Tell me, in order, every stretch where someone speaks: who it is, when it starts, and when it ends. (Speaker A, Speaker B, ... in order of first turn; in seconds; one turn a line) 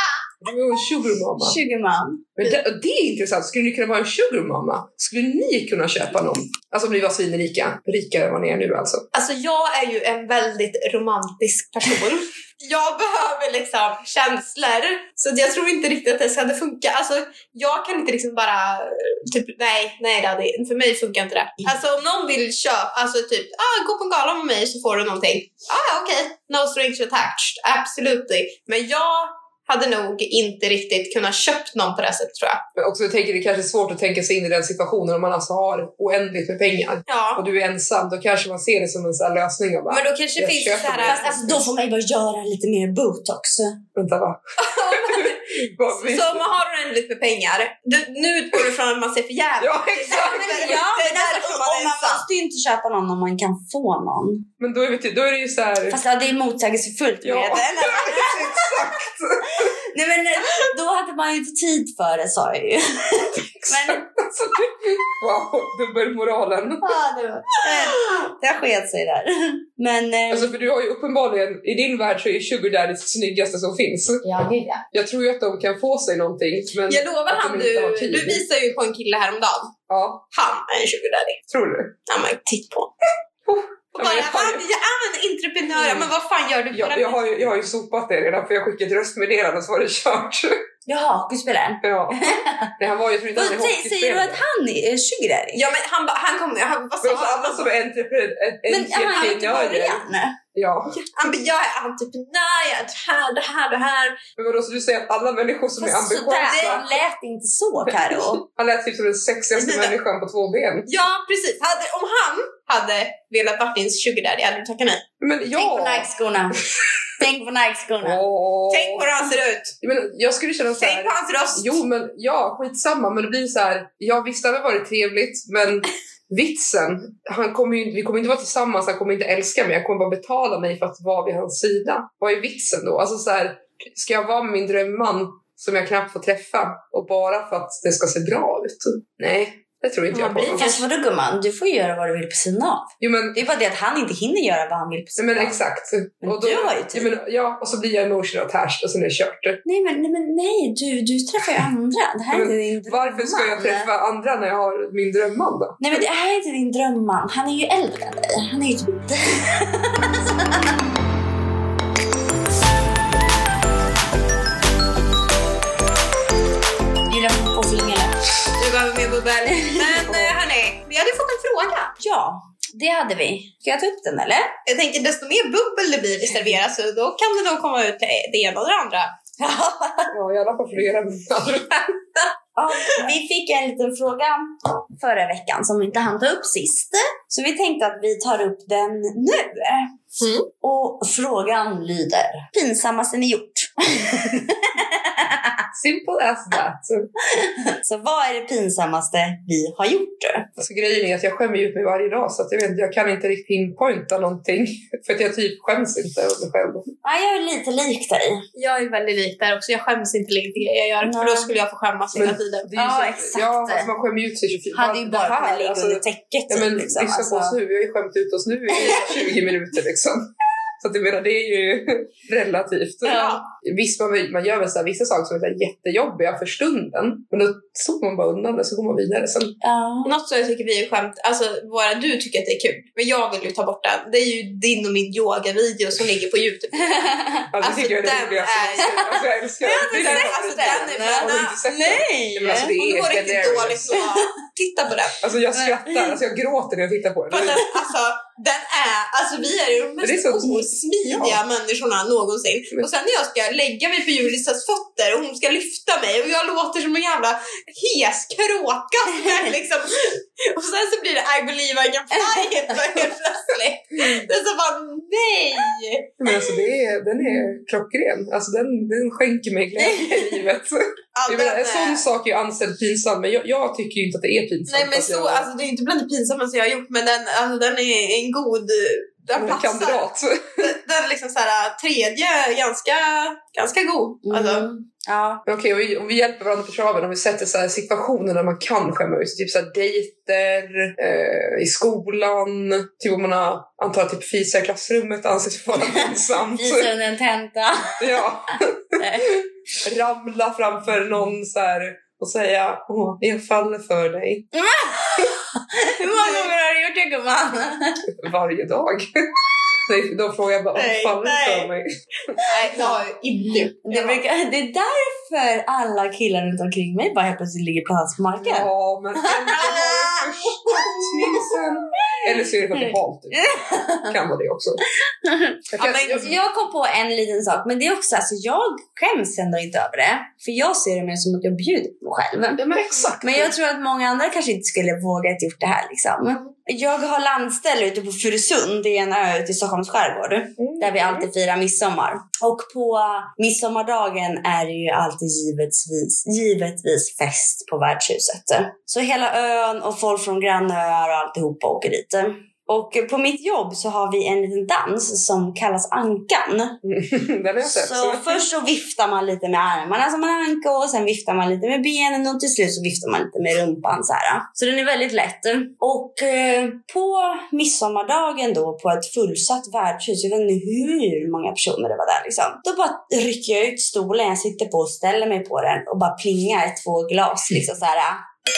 Speaker A: 0.4-1.6
Speaker B: 1.4-2.2
Speaker A: 2.4-9.1
Speaker C: 9.1-32.6
Speaker A: 32.8-41.7
Speaker C: 37.1-37.4
Speaker C: 39.9-41.4
Speaker B: 41.0-43.8
Speaker A: 43.9-46.5
Speaker C: 44.6-52.3
Speaker A: 49.6-50.8
Speaker B: 50.1-54.5
Speaker A: 54.6-56.0
Speaker B: 55.9-58.8
Speaker A: 57.2-59.7
Speaker B: 59.5-64.0
Speaker A: 63.5-66.9
Speaker B: 66.8-70.5
Speaker A: 70.3-74.2
Speaker B: 74.2-74.8
Speaker A: 74.9-78.4
Speaker C: 76.9-79.7
Speaker A: 79.9-80.2
Speaker C: 80.3-81.4
Speaker A: 81.5-81.9
Speaker C: 82.1-82.9
Speaker A: 83.5-84.6
Speaker C: 84.0-87.2
Speaker A: 85.7-86.1
Speaker A: 86.7-90.6
Speaker B: 90.9-92.7
Speaker A: 91.8-94.4
Speaker B: 93.3-95.6
Speaker C: 95.5-97.7
Speaker A: 97.0-100.9
Speaker B: 98.7-100.4
Speaker C: 101.0-104.2
Speaker A: 104.4-106.8
Speaker B: 105.8-108.4
Speaker C: 106.4-106.8
Speaker A: 107.8-110.9
Speaker C: 109.6-109.9
Speaker C: 110.9-115.0
Speaker A: 115.2-116.1
Speaker B: 115.5-116.6
Speaker B: 117.2-118.2
Speaker A: 118.0-119.1
Speaker C: 118.7-119.7
Speaker A: 119.8-140.7
Speaker C: 120.8-121.8
Speaker C: 140.1-140.8
Speaker B: 140.5-145.6
Speaker A: 143.0-143.4
Speaker A: 145.2-149.6
Speaker B: 146.2-147.1
Speaker B: 149.6-153.9
Speaker A: 152.3-156.0
Speaker B: 155.8-160.6
Speaker B: 167.1-168.1
Speaker C: 168.6-171.9
Speaker B: 169.5-170.2
Speaker B: 172.0-174.5
Speaker C: 174.7-179.1
Speaker B: 179.4-180.1
Speaker A: 180.1-182.0
Speaker B: 182.6-189.9
Speaker C: 190.2-190.5
Speaker B: 190.6-195.6
Speaker A: 195.7-197.1
Speaker B: 197.3-200.5
Speaker A: 200.6-206.8
Speaker B: 207.0-208.4
Speaker C: 208.6-212.7
Speaker B: 211.0-211.5
Speaker A: 212.1-220.2
Speaker B: 212.8-213.9
Speaker B: 214.7-217.6
Speaker B: 218.8-219.0
Speaker A: 220.8-229.6
Speaker B: 223.0-223.4
Speaker C: 223.1-223.4
Speaker B: 229.6-230.1
Speaker C: 230.0-241.6
Speaker B: 236.8-237.5
Speaker A: 237.5-244.0
Speaker B: 239.7-242.7
Speaker C: 242.5-245.2
Speaker B: 243.9-244.2
Speaker A: 245.2-247.7
Speaker B: 245.5-246.2
Speaker C: 247.3-266.2
Speaker A: 250.0-251.4
Speaker B: 262.1-262.7
Speaker A: 264.0-264.3
Speaker A: 266.2-275.5
Speaker B: 269.8-270.4
Speaker C: 271.1-272.1
Speaker C: 274.7-280.0
Speaker A: 279.3-280.7
Speaker C: 280.6-284.7
Speaker B: 284.2-285.4
Speaker A: 285.4-296.9
Speaker B: 295.8-298.0
Speaker A: 298.0-304.5
Speaker B: 299.0-299.4
Speaker B: 304.5-308.1
Speaker A: 308.2-309.3
Speaker A: 309.8-312.4
Speaker B: 310.7-311.7
Speaker B: 312.3-312.9
Speaker C: 312.4-314.2
Speaker B: 313.8-324.1
Speaker A: 318.4-324.8
Speaker C: 319.6-319.9
Speaker B: 325.2-332.6
Speaker A: 325.7-326.4
Speaker A: 332.6-333.5
Speaker B: 333.2-356.8
Speaker A: 340.6-341.3
Speaker A: 356.8-358.4
Speaker B: 357.6-378.3